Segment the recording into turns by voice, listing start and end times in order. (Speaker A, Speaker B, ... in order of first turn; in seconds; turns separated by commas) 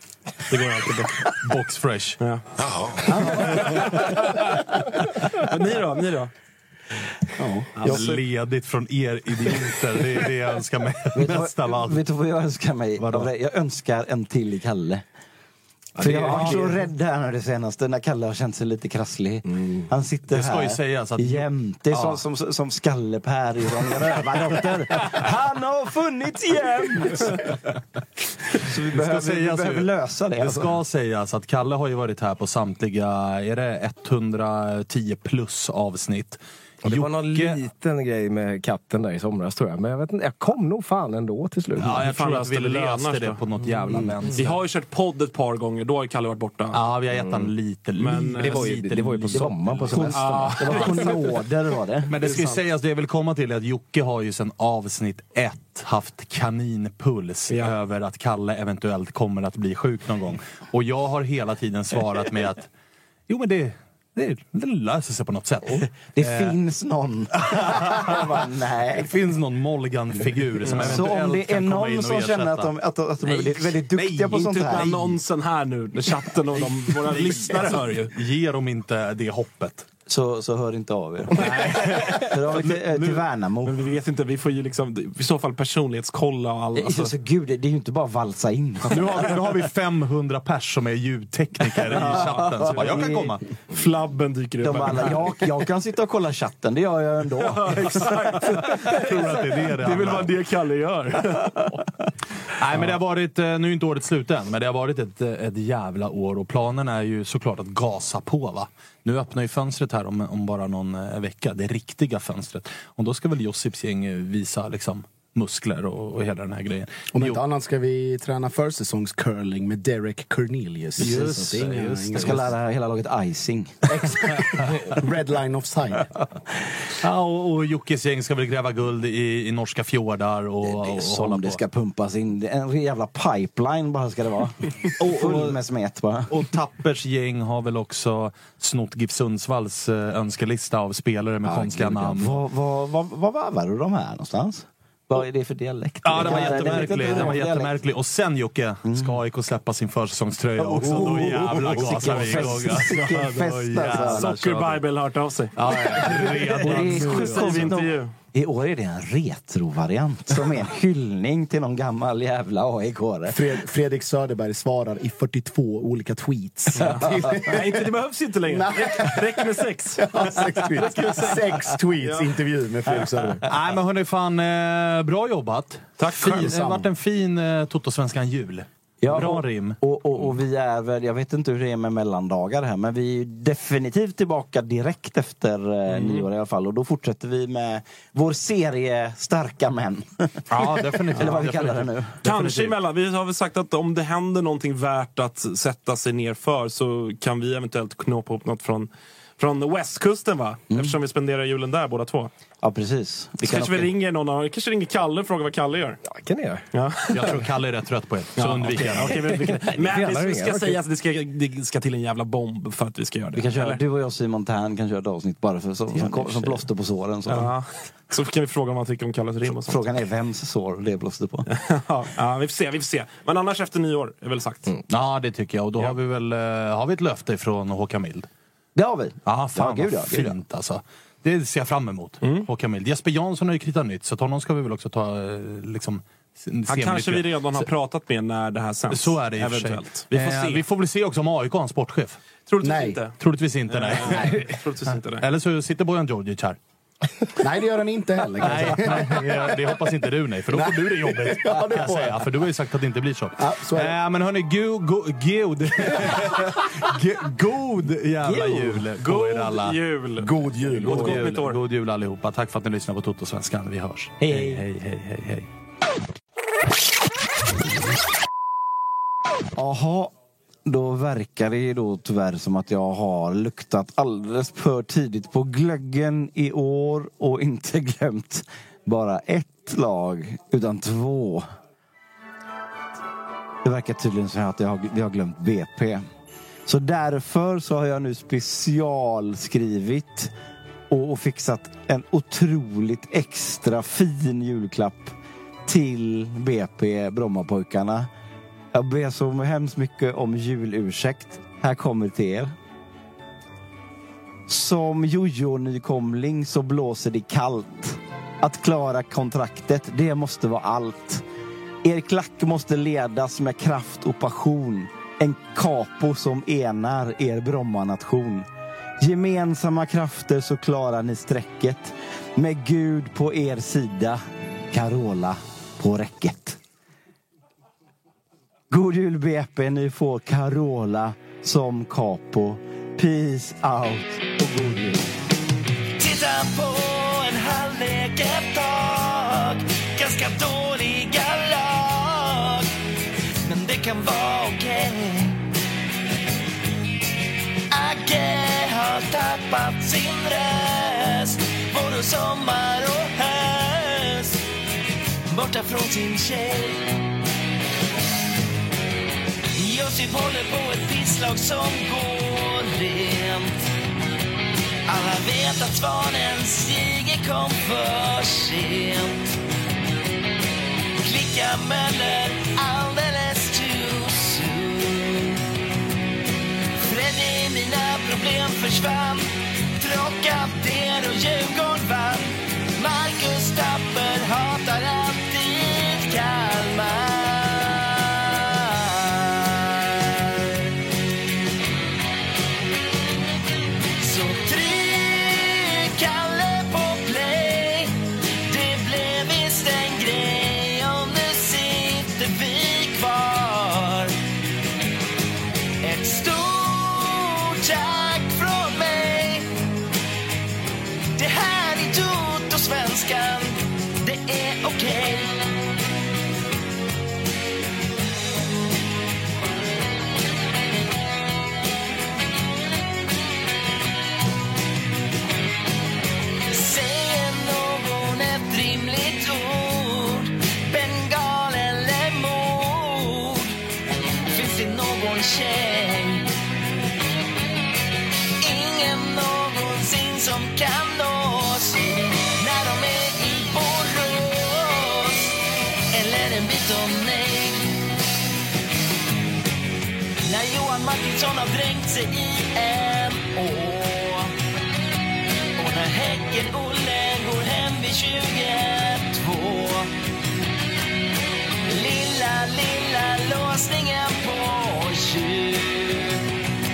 Speaker A: 0.5-1.3, Speaker B: 1.4-2.2, Speaker A: 3.1-4.5, Speaker B: 3.1-4.1, Speaker A: 5.3-6.3, Speaker C: 7.4-7.8, Speaker A: 7.8-8.2, Speaker B: 7.8-12.0, Speaker D: 11.1-15.0, Speaker B: 13.0-13.3, Speaker A: 16.0-16.7, Speaker D: 16.0-27.4, Speaker B: 16.0-16.7, Speaker B: 20.3-22.2, Speaker D: 28.5-30.7, Speaker B: 28.9-37.6, Speaker E: 36.8-42.0, Speaker B: 41.7-44.6, Speaker A: 42.0-43.4, Speaker A: 44.3-46.8, Speaker B: 46.7-50.2, Speaker A: 48.0-48.7, Speaker E: 48.4-50.8, Speaker D: 49.9-52.1, Speaker A: 50.1-51.1, Speaker B: 52.1-62.7, Speaker A: 52.2-52.6, Speaker A: 57.5-57.8, Speaker B: 63.3-66.6, Speaker D: 66.0-69.1, Speaker B: 67.5-68.2, Speaker B: 69.0-72.7, Speaker A: 70.6-71.1, Speaker D: 70.7-75.1, Speaker B: 74.0-75.0, Speaker A: 74.0-78.1, Speaker B: 76.5-79.9, Speaker D: 80.1-83.8, Speaker B: 81.3-83.2, Speaker A: 81.5-82.1, Speaker A: 83.6-87.1, Speaker D: 86.7-89.3, Speaker B: 88.9-93.4, Speaker A: 91.9-92.9, Speaker D: 92.0-93.3, Speaker A: 93.7-95.3, Speaker D: 94.6-98.2, Speaker A: 97.5-101.8, Speaker B: 98.8-100.3, Speaker B: 102.6-117.4, Speaker C: 117.1-122.5, Speaker B: 121.0-122.4, Speaker D: 121.1-121.3, Speaker D: 122.2-124.0, Speaker C: 123.9-126.1, Speaker B: 127.0-131.6, Speaker D: 130.7-136.3, Speaker B: 135.0-135.6, Speaker B: 136.3-142.4, Speaker D: 141.4-147.7, Speaker B: 146.0-154.8, Speaker A: 146.2-147.4, Speaker D: 148.9-149.1, Speaker D: 150.6-154.3, Speaker A: 151.6-153.3, Speaker A: 153.8-158.1, Speaker B: 155.6-157.7, Speaker D: 156.1-163.4, Speaker C: 163.3-167.9, Speaker A: 166.8-172.3, Speaker C: 168.5-173.4, Speaker B: 173.4-179.8, Speaker A: 176.0-176.9, Speaker C: 176.3-176.7, Speaker D: 179.0-192.2, Speaker A: 185.9-186.2, Speaker B: 190.5-192.8, Speaker A: 192.2-202.3, Speaker D: 200.7-200.9, Speaker D: 202.6-203.9, Speaker A: 203.4-206.0, Speaker E: 206.1-206.6, Speaker A: 206.7-207.4, Speaker B: 207.1-209.2, Speaker A: 208.3-213.8, Speaker E: 209.1-210.8, Speaker D: 213.3-217.5, Speaker E: 215.9-216.6, Speaker A: 217.2-219.8, Speaker D: 219.5-221.5, Speaker A: 221.5-224.7, Speaker B: 224.9-228.3, Speaker D: 228.7-230.4, Speaker B: 229.2-237.7, Speaker A: 232.2-232.5, Speaker A: 236.7-240.7, Speaker B: 238.9-242.2, Speaker A: 242.5-245.3, Speaker C: 242.6-243.0, Speaker B: 243.2-246.6, Speaker C: 244.1-244.3, Speaker C: 247.4-249.6, Speaker B: 248.4-259.8, Speaker C: 250.5-252.2, Speaker C: 253.4-253.9, Speaker C: 258.3-258.7, Speaker A: 259.0-261.6, Speaker C: 260.2-261.3, Speaker B: 260.8-265.5, Speaker D: 264.2-264.6, Speaker D: 269.6-270.1, Speaker D: 270.6-281.4, Speaker D: 283.6-286.0, Speaker D: 286.6-290.3, Speaker D: 290.9-298.1, Speaker D: 298.7-302.5, Speaker D: 304.5-311.2, Speaker D: 311.8-318.4, Speaker D: 319.0-324.2, Speaker D: 324.7-326.6, Speaker D: 328.7-335.1, Speaker F: 336.0-342.7, Speaker F: 343.4-345.4, Speaker F: 347.7-354.4, Speaker F: 355.3-357.0, Speaker F: 359.5-363.5, Speaker F: 364.9-369.4, Speaker F: 371.0-375.4, Speaker F: 376.8-390.3, Speaker F: 394.0-404.1, Speaker F: 405.8-409.5, Speaker F: 411.2-415.3, Speaker F: 426.5-433.5, Speaker F: 434.3-436.2, Speaker F: 438.4-445.4, Speaker F: 445.9-447.7, Speaker F: 450.2-454.3, Speaker F: 455.6-459.9, Speaker F: 461.7-466.2